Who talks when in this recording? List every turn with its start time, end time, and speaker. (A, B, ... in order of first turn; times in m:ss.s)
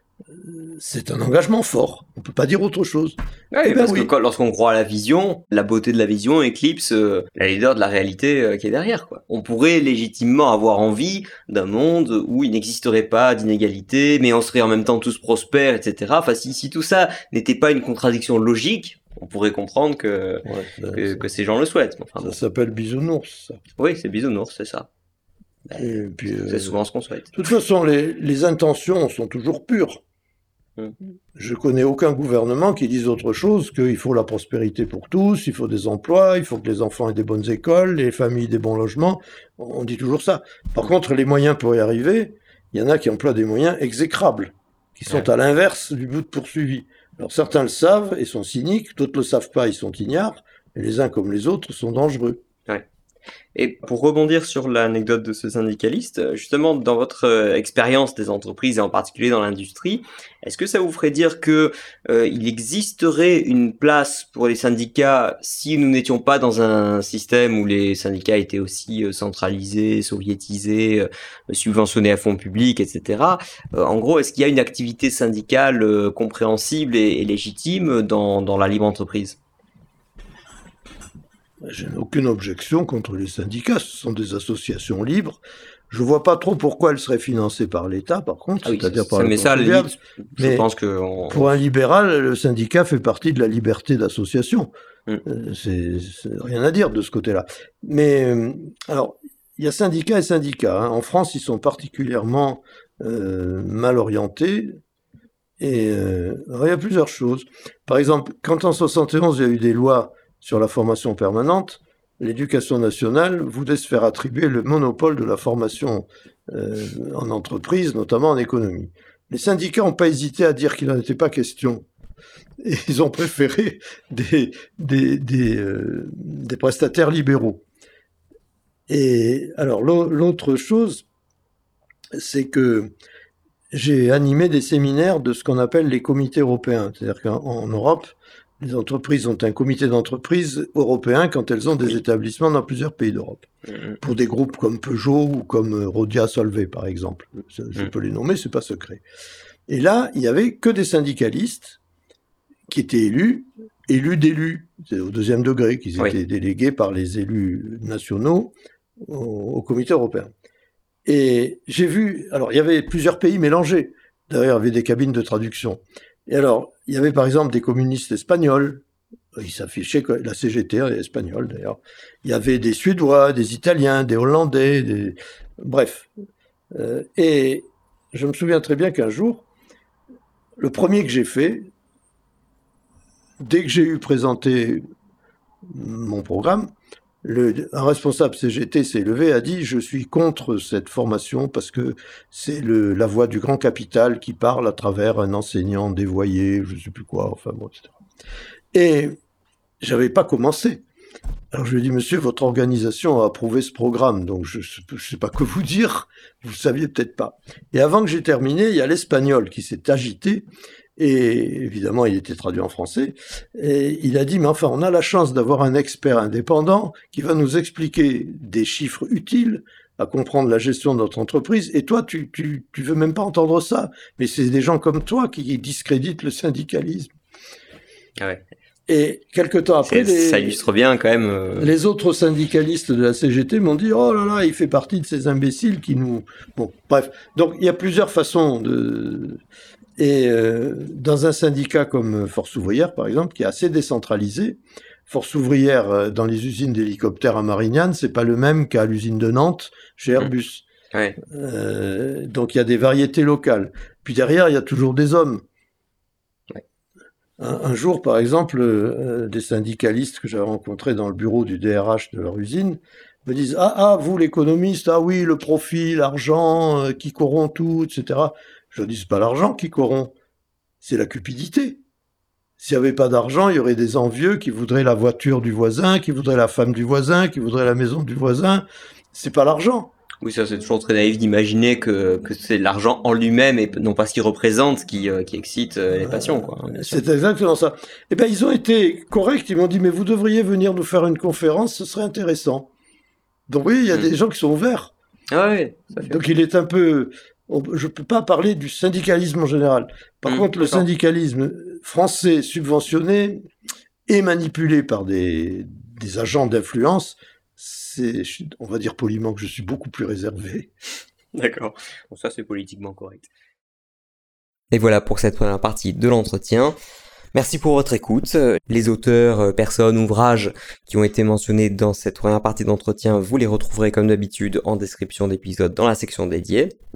0:00.3-0:04.1 A
0:03.5-0:20.4 B
0:20.4-0:21.2 A
0:21.0-0:22.4 B
0:22.2-0:23.6 A
0:23.8-0:24.9 B
0:25.7-0:27.3 B
0:25.8-0:26.8 A
0:27.3-0:30.0 A
0:31.4-0:52.4 A
0:53.6-1:19.4 B
1:21.6-1:30.6 A
1:28.6-1:31.6 B
1:31.3-1:34.7 A
1:35.2-1:44.8 A
1:45.6-2:01.8 A
2:02.6-2:07.6 A
2:08.9-2:11.0 A
2:12.2-2:12.9 A
2:13.7-2:23.5 A
2:24.0-2:29.0 A
2:29.7-2:31.8 A
2:32.7-2:40.3 A
2:41.1-2:48.8 A
2:49.4-2:56.1 A
2:56.7-2:59.5 A
3:00.6-3:01.7 A
3:03.4-3:04.8 A
3:05.6-3:06.7 A
3:07.2-3:18.0 A
3:18.7-3:19.2 A
3:19.8-3:20.8 A
3:21.5-3:30.5 A
3:31.0-3:47.1 A
3:48.2-3:48.4 B
3:48.9-3:50.6 A
3:49.9-3:51.7 B
3:51.6-3:59.4 A
4:00.0-4:10.7 A
4:10.9-4:11.2 B
4:11.2-4:15.4 A
4:17.4-4:30.1 A
4:30.8-4:31.8 A
4:32.6-4:39.9 A
4:40.2-4:47.0 B
4:46.0-4:52.7 A
4:53.5-4:54.9 A
4:55.3-4:56.2 B
4:56.0-5:03.4 A
5:00.3-5:00.8 B
5:04.1-5:10.7 A
5:11.3-5:13.3 B
5:14.7-5:16.8 B
5:17.3-5:26.7 B